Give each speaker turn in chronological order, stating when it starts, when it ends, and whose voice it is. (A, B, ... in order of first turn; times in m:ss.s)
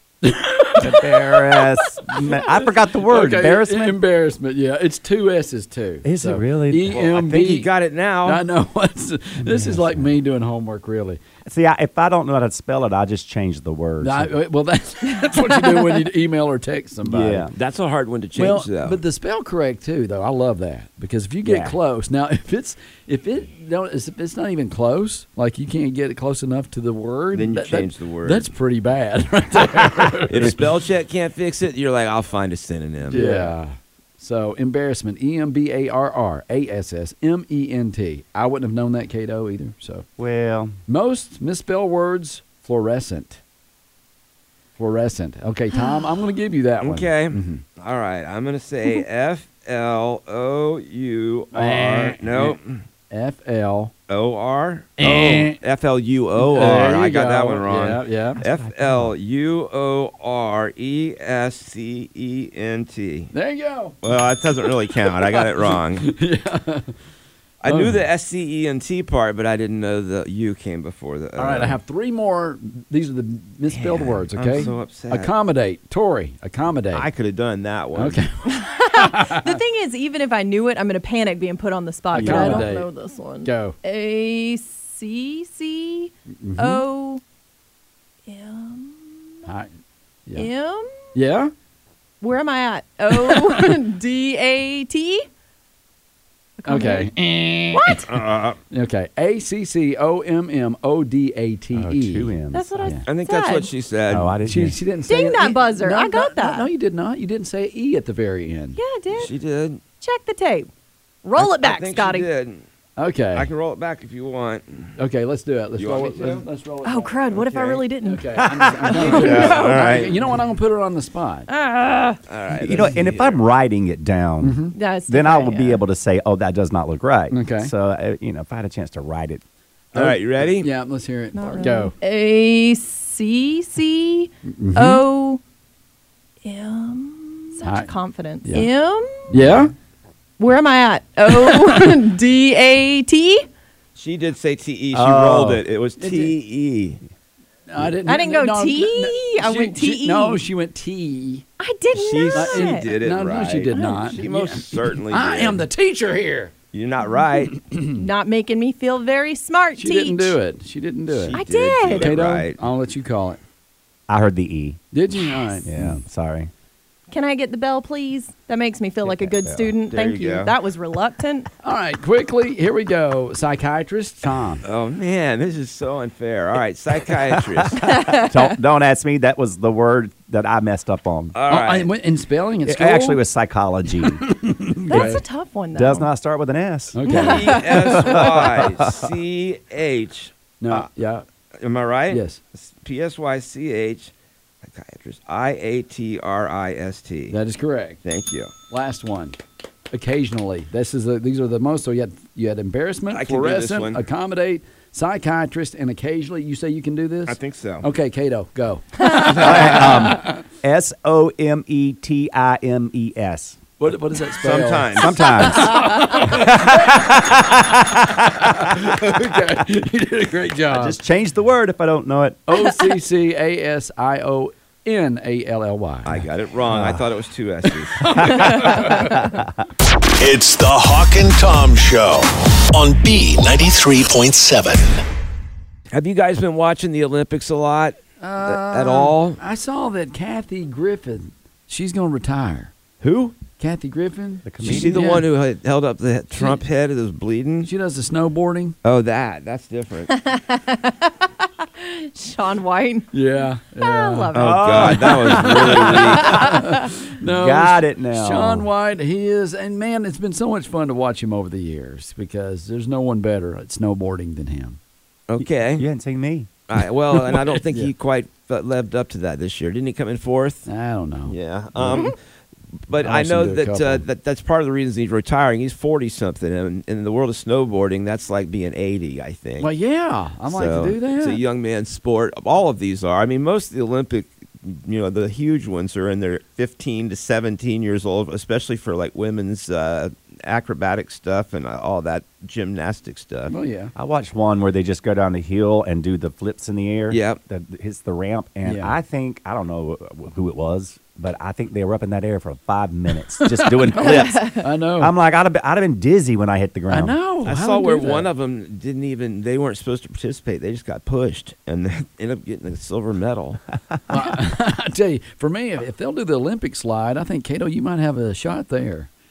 0:00.2-0:07.7 A
0:00.8-0:04.0 B
0:06.0-0:07.0 B
0:06.9-0:08.4 C
0:08.2-0:11.2 A
0:09.4-0:10.1 B
0:11.4-0:14.3 B
0:14.0-0:17.5 A
0:15.3-0:15.8 D
0:17.0-0:17.5 B
0:17.5-0:19.0 C
0:18.4-0:30.6 A
0:21.4-0:21.8 B
0:27.3-0:28.5 C
0:30.3-0:33.2 C
0:33.1-0:40.0 A
0:33.1-0:33.5 B
0:40.2-0:40.8 B
0:40.9-0:43.4 A
0:44.8-0:47.6 A
0:46.8-0:52.8 C
0:51.5-0:52.6 A
0:53.1-0:53.9 A
0:54.1-1:03.3 C
0:55.0-0:55.6 A
0:56.4-0:58.4 A
0:58.4-0:59.1 B
1:03.3-1:04.0 A
1:04.0-1:06.1 C
1:05.1-1:06.9 A
1:07.6-1:11.8 C
1:07.7-1:08.0 A
1:11.4-1:17.1 A
1:13.7-1:15.3 C
1:16.9-1:18.2 C
1:18.0-1:19.6 A
1:18.5-1:27.2 D
1:22.1-1:22.9 A
1:22.1-1:22.7 B
1:23.4-1:23.8 A
1:26.4-1:26.8 A
1:28.2-1:29.4 D
1:30.3-1:31.1 D
1:31.1-1:31.5 A
1:32.2-1:35.3 D
1:33.3-1:33.6 A
1:36.6-1:37.1 D
1:36.6-1:38.1 A
1:37.7-1:38.1 D
1:38.1-1:38.6 C
1:38.7-1:43.0 A
1:41.7-1:42.9 B
1:42.5-1:43.7 D
1:43.1-1:44.3 C
1:44.1-1:44.8 B
1:44.4-1:48.8 A
1:45.1-1:46.7 D
1:48.8-1:49.3 D
1:49.1-1:49.8 C
1:50.0-1:50.7 D
1:51.2-1:52.3 D
1:51.4-1:52.6 C
1:53.0-1:53.5 A
1:53.3-1:54.9 C
1:55.0-1:57.2 A
1:55.8-1:56.4 C
1:56.8-1:58.4 D
1:57.3-1:57.8 C
1:58.0-2:01.5 A
1:58.4-1:59.2 B
1:59.0-2:00.1 D
1:59.0-2:00.2 C
2:01.5-2:02.2 D
2:02.3-2:03.4 C
2:02.6-2:09.4 B
2:04.4-2:04.7 A
2:04.8-2:05.8 D
2:07.3-2:07.7 A
2:09.9-2:10.7 C
2:09.9-2:11.9 A
2:11.3-2:15.4 D
2:14.4-2:15.0 A
2:16.4-2:19.3 D
2:17.6-2:17.9 A
2:18.4-2:18.7 A
2:19.3-2:19.7 A
2:20.4-2:23.5 D
2:21.5-2:21.8 A
2:24.0-2:27.0 C
2:24.9-2:25.6 B
2:26.0-2:26.3 A
2:27.7-2:31.4 A
2:28.0-2:30.4 D
2:31.6-2:32.9 D
2:31.9-2:35.6 C
2:32.3-2:36.5 A
2:33.7-2:34.2 D
2:36.7-2:37.6 C
2:37.6-2:38.0 A
2:37.9-2:40.4 D
2:39.8-2:41.4 A
2:41.1-2:42.6 C
2:41.3-2:42.1 D
2:41.9-2:43.4 A
2:44.1-2:44.8 B
2:44.9-2:46.0 A
2:45.6-2:46.5 B
2:47.1-2:51.5 D
2:49.0-2:49.7 B
2:49.9-2:50.5 C
2:51.6-2:54.6 A
2:54.6-2:57.8 C
2:57.8-3:01.3 B
2:57.8-2:58.4 D
3:01.3-3:01.9 C
3:01.5-3:03.2 A
3:02.6-3:04.2 B
3:04.2-3:05.2 A
3:04.9-3:06.1 D
3:04.9-3:05.2 B
3:05.7-3:07.0 B
3:06.9-3:07.8 A
3:07.1-3:08.0 D
3:07.2-3:10.9 C
3:08.1-3:09.1 B
3:10.6-3:11.2 A
3:11.6-3:14.1 C
3:12.1-3:12.4 A
3:14.6-3:17.4 C
3:17.3-3:18.0 A
3:18.0-3:18.5 C
3:18.7-3:19.4 A
3:19.9-3:30.4 A
3:23.1-3:24.0 C
3:27.3-3:27.8 C
3:29.2-3:33.6 B
3:29.3-3:29.8 C
3:33.8-3:37.4 A
3:34.4-3:35.2 C
3:34.9-3:38.7 B
3:38.2-3:41.0 A
3:40.7-3:42.4 B
3:42.5-3:46.2 A
3:46.0-3:48.2 C
3:46.7-3:47.0 B
3:48.0-3:49.3 A
3:48.2-3:49.4 B
3:50.2-3:55.0 E
3:55.9-3:59.4 C
3:58.2-4:02.7 A
4:03.0-4:03.4 C
4:03.6-4:05.2 A
4:04.4-4:05.0 B
4:04.6-4:07.7 C
4:07.6-4:08.8 A
4:08.8-4:10.1 C
4:10.1-4:13.1 D
4:13.1-4:14.7 A
4:13.8-4:16.7 D
4:14.3-4:15.7 B
4:14.3-4:16.4 C
4:15.4-4:24.8 A
4:17.2-4:18.7 B
4:25.3-4:25.8 C
4:25.4-4:26.5 B
4:26.7-4:30.7 C
4:30.6-4:31.3 A
4:31.2-4:32.2 C
4:32.9-4:39.7 C
4:33.0-4:34.0 A
4:39.6-4:41.4 A
4:40.5-4:53.5 C
4:53.5-4:53.9 A
4:54.0-5:07.2 B
4:57.1-4:57.4 C
4:58.6-4:59.0 A
5:03.4-5:05.1 A
5:04.2-5:04.5 D
5:06.9-5:08.3 A
5:07.4-5:13.6 C
5:14.1-5:19.1 A